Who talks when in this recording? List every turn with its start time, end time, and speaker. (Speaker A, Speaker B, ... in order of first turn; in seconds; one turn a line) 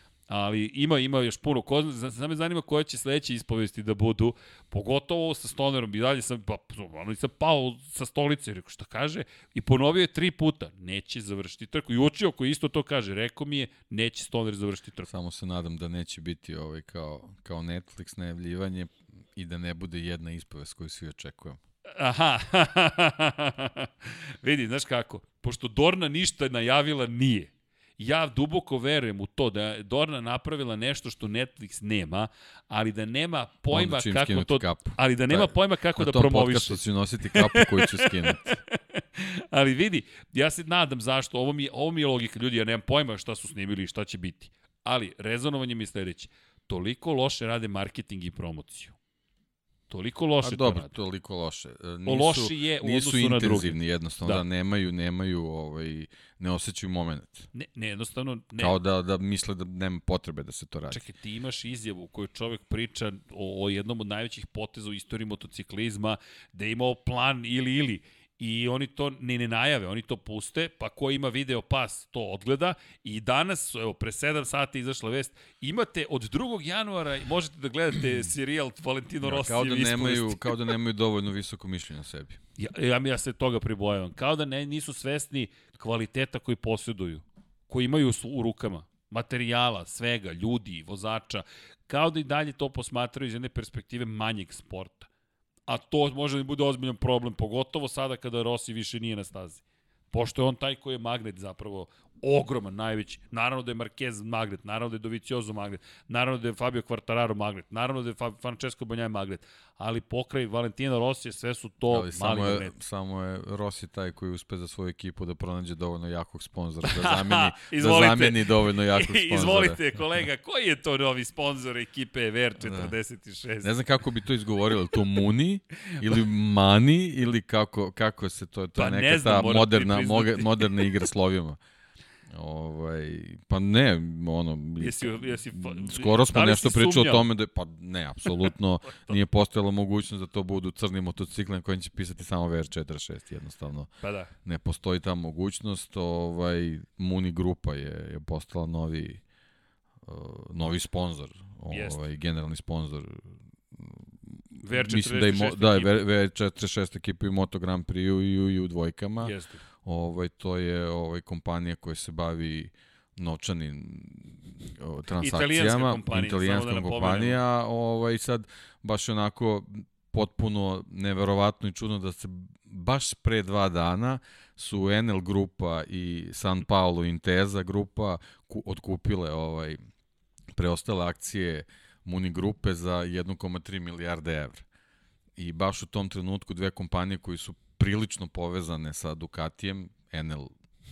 Speaker A: 0.3-15.1
Speaker B: 15.1-21.6
Speaker A: 22.0-49.0
Speaker B: 33.7-38.6
Speaker A: 49.9-50.9
Speaker B: 50.4-57.5
Speaker A: 52.0-54.4
Speaker A: 57.5-58.7
Speaker B: 58.6-61.0
Speaker A: 60.9-80.7
Speaker B: 79.2-82.4
Speaker A: 82.6-95.1
Speaker A: 95.7-112.7
Speaker B: 111.9-119.8
Speaker A: 116.8-123.8
Speaker B: 122.6-122.9
Speaker B: 123.6-131.6
Speaker A: 128.8-130.9
Speaker B: 132.3-143.9
Speaker A: 134.8-137.2
Speaker A: 144.0-144.3
Speaker B: 144.4-149.2
Speaker B: 150.0-179.8
Speaker A: 151.7-152.0
Speaker A: 154.6-156.1
Speaker A: 159.2-159.7
Speaker A: 165.2-167.4
Speaker B: 180.5-184.7
Speaker B: 185.4-190.5